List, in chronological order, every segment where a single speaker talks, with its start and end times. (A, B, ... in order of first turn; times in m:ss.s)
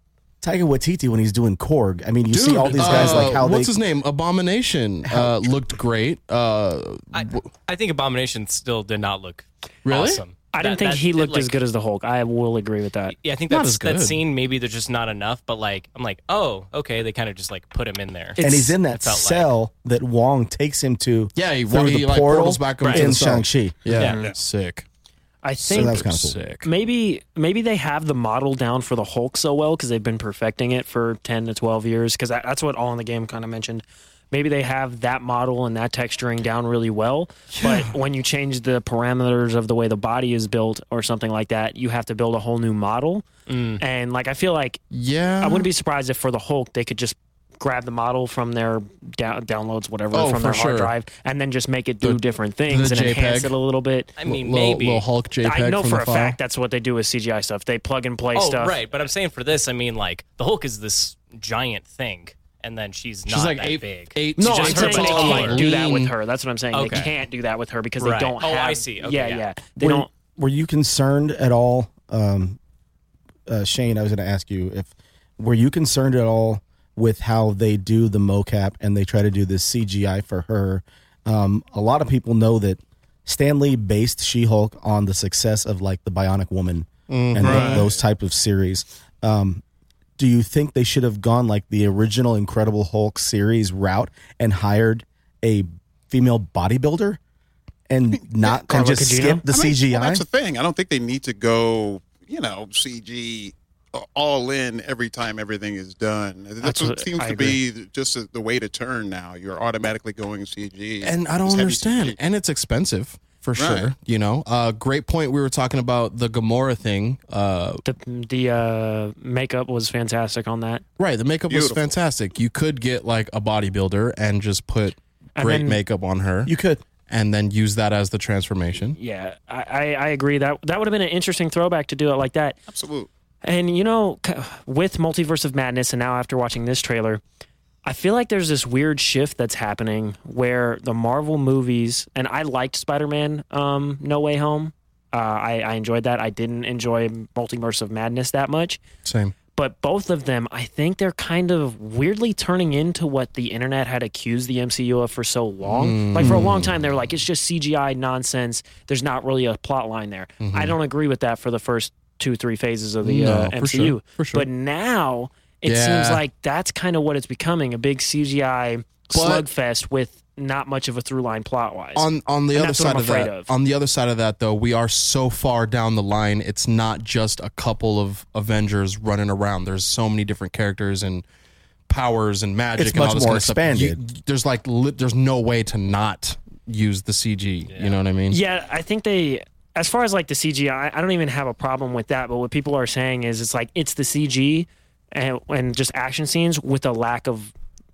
0:00.4-0:03.8 A
0:02.3-0:07.4 B
0:05.0-0:05.4 A
0:07.1-0:11.5 C
0:09.8-0:10.2 B
0:10.5-0:13.1 D
0:13.1-0:19.5 C
0:13.5-0:14.2 B
0:18.4-0:23.8 A
0:21.3-0:24.8 B
0:22.8-0:23.1 C
0:23.9-0:24.2 C
0:23.9-0:24.3 D
0:25.4-0:26.1 D
0:25.7-0:26.7 B
0:25.7-0:26.4 A
0:26.6-0:43.2 D
0:37.5-0:37.9 B
0:43.5-0:43.8 C
0:43.8-0:44.8 D
0:44.9-0:45.7 B
0:45.4-0:54.1 D
0:50.1-0:50.9 B
0:52.0-0:53.5 B
0:54.2-0:55.0 C
0:54.2-0:56.4 B
0:55.4-0:58.8 D
0:58.3-1:05.6 C
1:03.3-1:06.1 B
1:04.4-1:10.1 D
1:06.7-1:07.1 C
1:08.0-1:09.4 C
1:09.8-1:12.6 A
1:13.5-1:29.6 A
1:27.1-1:27.9 B
1:27.4-1:28.0 E
1:30.2-1:37.2 A
1:37.9-1:40.2 A
1:38.6-1:39.4 D
1:39.5-1:52.2 E
1:46.6-1:47.6 D
1:51.0-1:57.8 B
1:53.6-1:53.9 E
1:57.8-2:00.8 D
2:01.0-2:06.5 B
2:01.5-2:02.0 E
2:05.4-2:05.8 D
2:06.4-2:06.8 A
2:07.0-2:09.0 B
2:09.0-2:12.6 D
2:12.7-2:13.1 E
2:13.4-2:17.2 D
2:17.8-2:28.8 D
2:29.0-2:29.3 B
2:29.5-2:53.5 D
2:35.6-2:36.8 B
2:40.4-2:40.8 B
2:43.0-2:44.5 B
2:45.6-2:46.2 B
2:49.1-2:49.4 B
2:52.0-3:01.2 B
3:01.9-3:08.4 B
3:02.8-3:04.0 A
3:07.7-3:07.9 C
3:08.3-3:17.5 D